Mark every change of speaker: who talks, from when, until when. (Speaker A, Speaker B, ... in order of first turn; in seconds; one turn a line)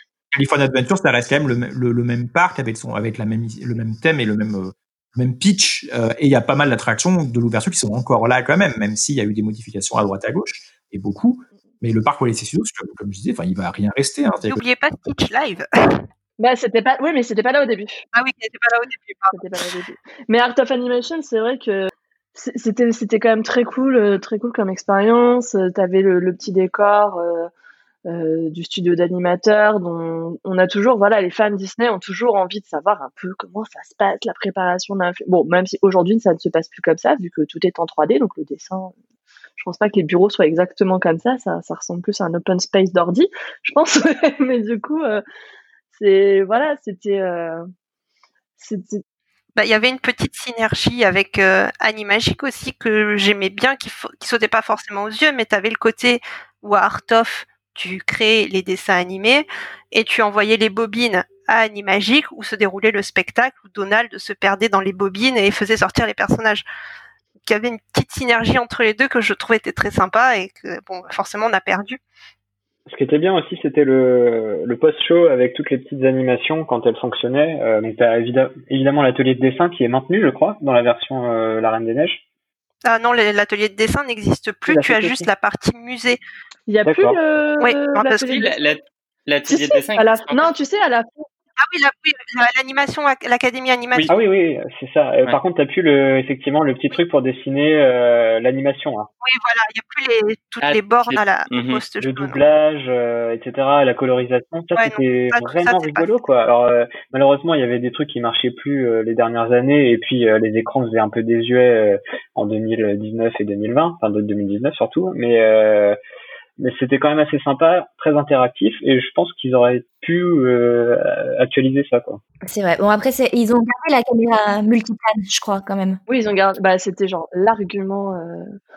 Speaker A: 0.3-14.6
Speaker B: 14.4-16.1
Speaker C: 16.4-18.1
Speaker B: 18.1-19.4
Speaker C: 19.3-27.5
Speaker C: 28.1-39.0
Speaker C: 39.6-45.2
Speaker C: 45.9-47.6
Speaker C: 48.6-49.0
Speaker B: 49.6-66.7
Speaker B: 67.5-72.0
Speaker D: 72.9-82.2
Speaker B: 82.8-86.2
Speaker D: 84.7-85.3
Speaker C: 86.7-88.6
Speaker D: 86.8-87.2
Speaker B: 87.6-88.4
Speaker E: 88.2-90.5
Speaker C: 89.5-91.2
Speaker B: 91.6-94.1
Speaker D: 93.9-99.1
Speaker B: 99.2-102.4
Speaker E: 100.6-101.8
Speaker D: 102.0-116.0
Speaker B: 104.8-106.1
Speaker D: 116.6-122.2
Speaker F: 122.5-126.0
Speaker C: 126.1-128.5